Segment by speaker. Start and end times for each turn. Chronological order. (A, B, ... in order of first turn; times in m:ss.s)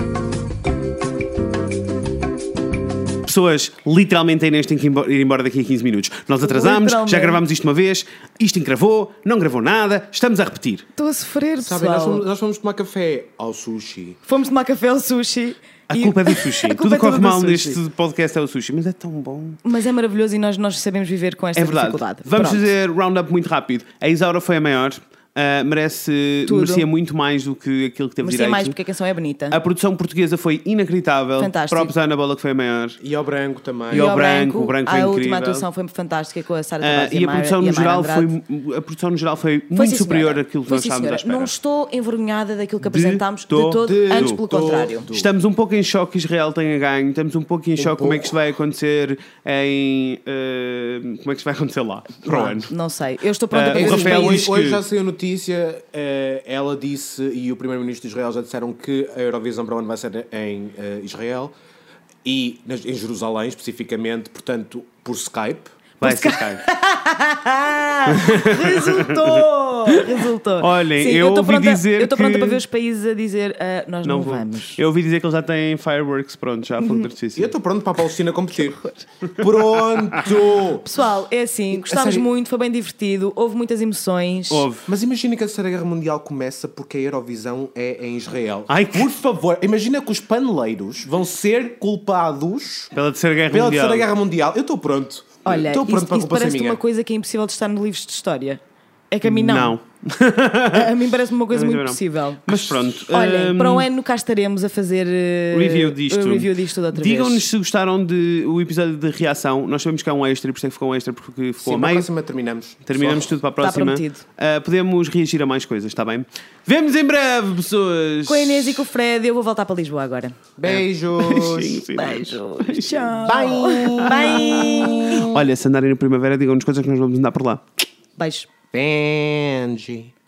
0:03.2-0:10.9 A
0:06.4-0:07.4 B
0:11.0-0:12.2 B
0:11.6-0:14.2 C
0:14.3-0:17.8 B
0:15.9-0:19.6 A
0:19.6-0:22.7 B
0:21.6-0:28.8 A
0:26.4-0:26.9 B
0:28.2-0:29.6 B
0:29.5-0:33.0 A
0:31.4-0:31.9 B
0:33.0-0:34.2 C
0:33.9-0:35.7 A
0:33.9-0:38.3 B
0:36.8-0:41.5 A
0:39.7-0:45.1 B
0:42.8-0:44.4 A
0:43.8-0:45.3 C
0:45.1-0:52.7 A
0:47.8-0:48.4 C
0:52.2-0:54.4 B
0:53.5-0:54.8 A
0:53.7-1:01.6 C
1:02.2-1:05.7 C
1:06.0-1:06.6 A
1:06.0-1:14.8 B
1:08.0-1:12.6 A
1:14.0-1:17.5 A
1:16.8-1:17.1 B
1:17.4-1:18.8 C
1:18.5-1:19.1 B
1:19.3-1:20.4 A
1:19.4-1:20.9 C
1:20.7-1:24.7 B
1:21.7-1:22.3 C
1:24.5-1:24.9 A
1:24.9-1:32.9 C
1:28.7-1:29.1 A
1:32.9-1:34.1 A
1:33.5-1:36.8 C
1:35.4-1:39.8 B
1:39.2-1:43.9 A
1:40.7-1:47.4 B
1:45.5-1:52.1 A
1:51.6-1:53.4 C
1:52.8-1:58.9 A
1:53.6-1:54.2 B
1:58.3-2:00.4 B
2:00.6-2:01.8 C
2:00.6-2:07.8 A
2:01.9-2:05.3 B
2:03.2-2:05.4 C
2:08.2-2:08.5 B
2:08.7-2:10.1 C